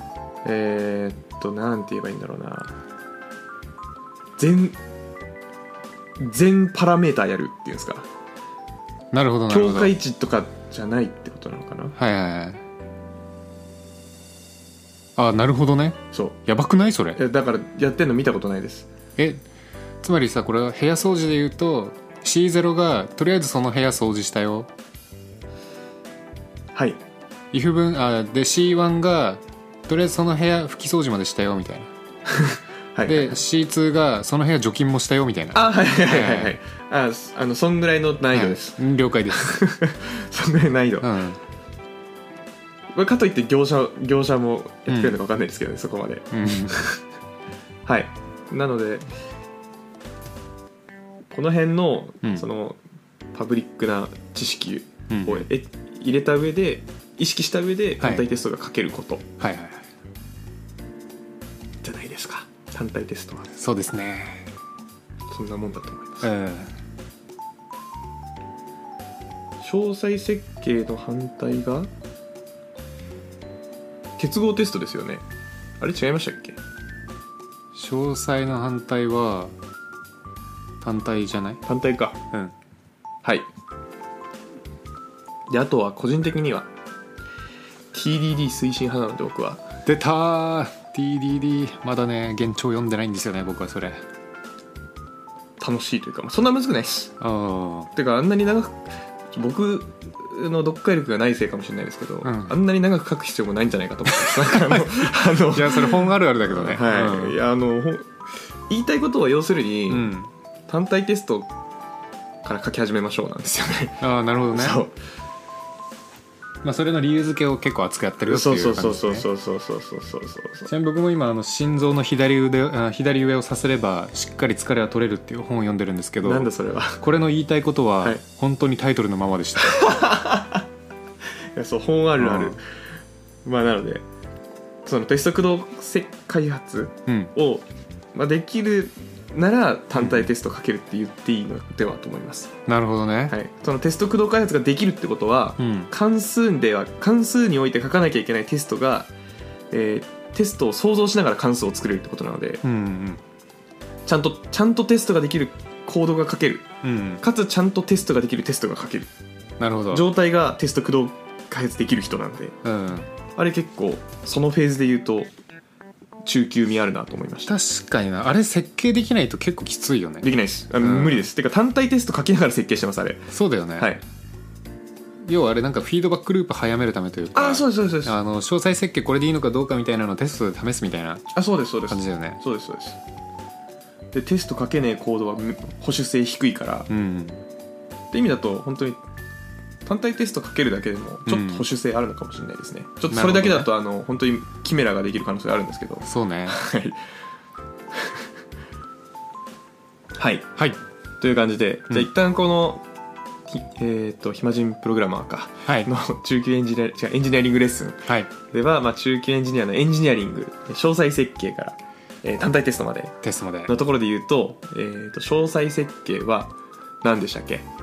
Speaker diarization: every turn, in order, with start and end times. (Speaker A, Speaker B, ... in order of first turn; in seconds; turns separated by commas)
Speaker A: 0.4-2.8, Speaker A: 4.4-4.8, Speaker A: 6.2-8.1, Speaker B: 9.1-9.9, Speaker A: 9.5-11.9, Speaker B: 12.0-12.6, Speaker B: 15.2-17.2, Speaker A: 17.1-18.9, Speaker B: 19.2-19.4, Speaker B: 20.0-24.7, Speaker B: 27.5-31.9, Speaker A: 32.3-33.4, Speaker B: 33.0-36.5, Speaker A: 35.5-41.1, Speaker B: 38.3-39.5, Speaker B: 41.0-41.4, Speaker A: 42.9-47.0, Speaker B: 44.9-45.1, Speaker B: 46.3-46.8, Speaker A: 47.9-49.0, Speaker A: 51.3-52.8, Speaker A: 53.3-59.2, Speaker B: 55.1-55.5, Speaker B: 58.0-58.3, Speaker B: 59.4-59.8, Speaker A: 61.8-63.6, Speaker B: 63.6-64.5, Speaker A: 65.3-66.3, Speaker B: 66.2-66.7, Speaker A: 69.6-71.9, Speaker A: 74.2-75.2, Speaker A: 75.8-76.6, Speaker B: 77.7-79.5, Speaker B: 80.8-81.6, Speaker A: 81.7-82.2, Speaker A: 85.5-86.7, Speaker A: 87.9-89.6, Speaker B: 89.8-94.0, Speaker A: 95.6-97.1, Speaker B: 97.2-97.9, Speaker A: 97.9-108.1, Speaker B: 102.2-102.5, Speaker B: 104.1-107.4, Speaker A: 108.7-110.1, Speaker B: 109.9-110.3, Speaker A: 110.7-111.5, Speaker A: 112.4-114.9, Speaker B: 114.0-114.8, Speaker B: 116.6-119.2, Speaker A: 118.2-120.7, Speaker B: 120.7-126.5, Speaker A: 126.2-127.0, Speaker B: 127.0-130.0, Speaker A: 129.6-130.6, Speaker A: 131.5-132.6, Speaker B: 132.2-132.6, Speaker A: 133.4-134.0, Speaker A: 134.8-142.5, Speaker B: 137.1-137.3, Speaker B: 140.0-140.3, Speaker B: 142.7-143.3, Speaker A: 143.3-149.1, Speaker B: 145.6-145.9, Speaker A: 149.7-152.6, Speaker B: 152.6-153.2, Speaker A: 154.1-156.7, Speaker B: 156.8-157.2, Speaker A: 157.2-159.1, Speaker B: 159.6-160.1, Speaker A: 159.9-162.5, Speaker B: 162.6-163.1, Speaker A: 163.4-165.3, Speaker A: 166.2-167.5, Speaker B: 167.5-171.3, Speaker A: 170.2-174.0, Speaker B: 173.3-173.9, Speaker B: 175.2-181.3, Speaker A: 177.3-178.2, Speaker A: 181.3-183.0, Speaker B: 181.9-182.4, Speaker A: 184.1-186.9, Speaker B: 186.9-187.4, Speaker A: 188.1-189.0, Speaker A: 189.8-197.0, Speaker B: 191.3-191.7, Speaker B: 193.1-193.7, Speaker B: 196.0-196.6, Speaker A: 200.2-200.5, Speaker A: 201.2-202.8, Speaker A: 203.5-213.2, Speaker B: 213.2-213.7, Speaker A: 213.7-217.7